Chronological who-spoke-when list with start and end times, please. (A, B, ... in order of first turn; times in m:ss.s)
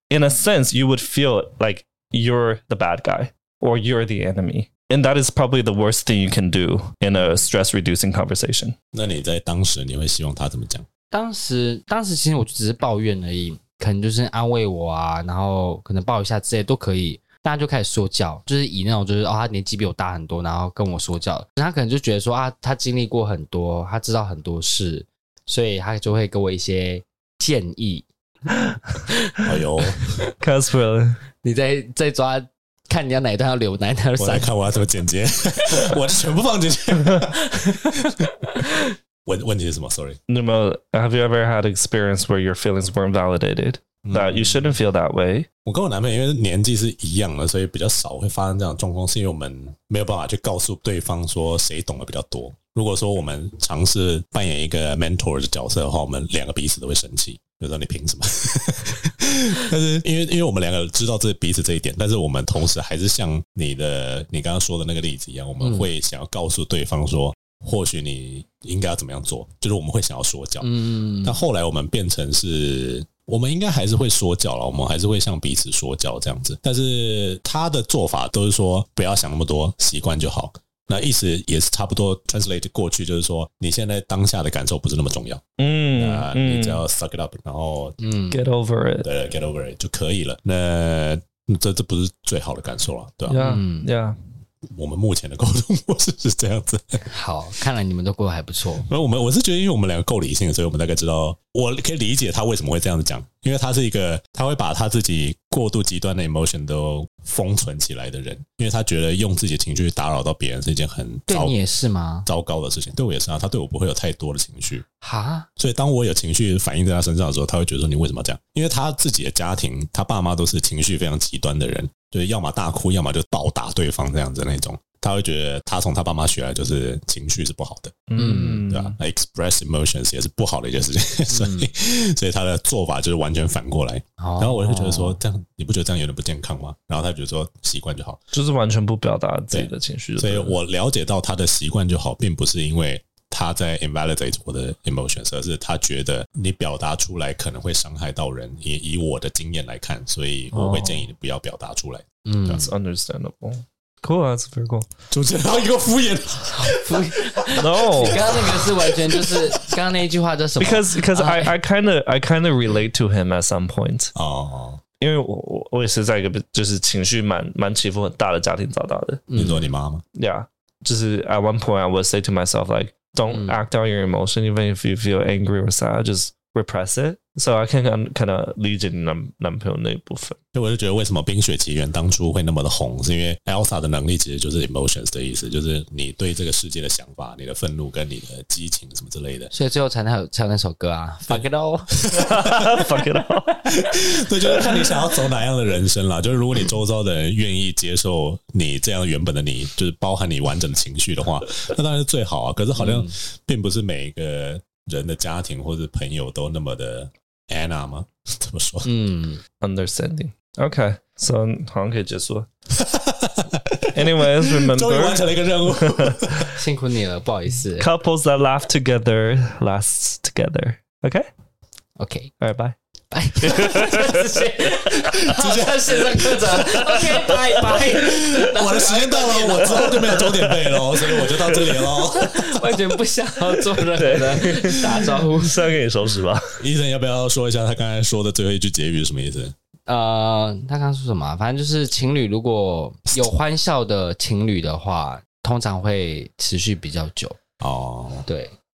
0:00.1-0:08.7 A
0:08.9-0:10.9 B
0:11.1-0:28.1 C
0:29.1-0:29.5 C
0:29.4-0:30.0 B
0:30.4-0:31.2 A
0:31.4-0:34.5 C
0:34.2-0:38.7 B
0:37.4-0:38.9 C
0:39.2-0:40.2 B
0:40.3-0:45.5 A
0:44.0-0:44.7 B
0:45.6-1:25.4 B
1:05.6-1:05.9 C
1:10.6-1:11.4 C
1:25.6-1:26.8 A
1:26.0-1:28.0 B
1:28.0-1:28.4 C
1:28.3-1:29.1 A
1:29.0-1:33.4 B
1:33.3-1:34.2 A
1:33.4-1:33.9 C
1:34.6-1:37.0 B
1:37.1-1:38.9 C
1:38.8-1:51.6 B
1:51.3-1:52.3 C
1:52.2-1:54.8 B
1:55.0-1:55.5 C
1:55.6-2:08.1 B
2:08.1-2:09.0 A
2:08.2-2:08.7 C
2:08.6-2:18.2 B
2:11.3-2:11.7 C
2:14.2-2:15.2 C
2:18.3-2:20.6 A
2:19.5-2:32.7 B
2:30.5-2:31.0 A
2:32.2-2:32.7 C
2:32.5-2:34.9 A
2:35.1-2:39.8 B
2:36.5-2:41.5 C
2:37.5-2:38.2 A
2:40.6-2:44.1 A
2:44.1-2:44.8 B
2:45.0-2:49.2 A
2:49.3-2:49.7 C
2:49.3-2:50.0 B
2:50.1-3:00.4 A
2:53.3-2:53.6 C
3:00.5-3:09.5 B
3:09.5-3:11.9 C
3:12.0-3:12.9 B
3:12.1-3:13.5 A
3:13.6-3:28.9 B
3:22.8-3:23.1 C
3:28.8-3:29.4 C
3:29.6-3:32.5 A
3:32.7-3:36.6 B
3:33.9-3:36.5 A
3:36.6-3:37.9 C
3:37.8-3:41.3 A
3:42.0-3:42.3 C
3:42.4-3:42.8 A
3:43.1-3:51.2 C
3:43.4-3:45.3 A
3:45.2-3:46.7 B
3:46.6-3:47.8 A
3:47.6-3:52.8 B
3:50.0-3:51.6 A
3:52.1-3:55.7 C
3:53.9-3:56.6 A
3:56.6-3:59.5 B
3:59.9-4:07.4 C
4:07.6-4:08.2 B
4:08.3-4:08.5 C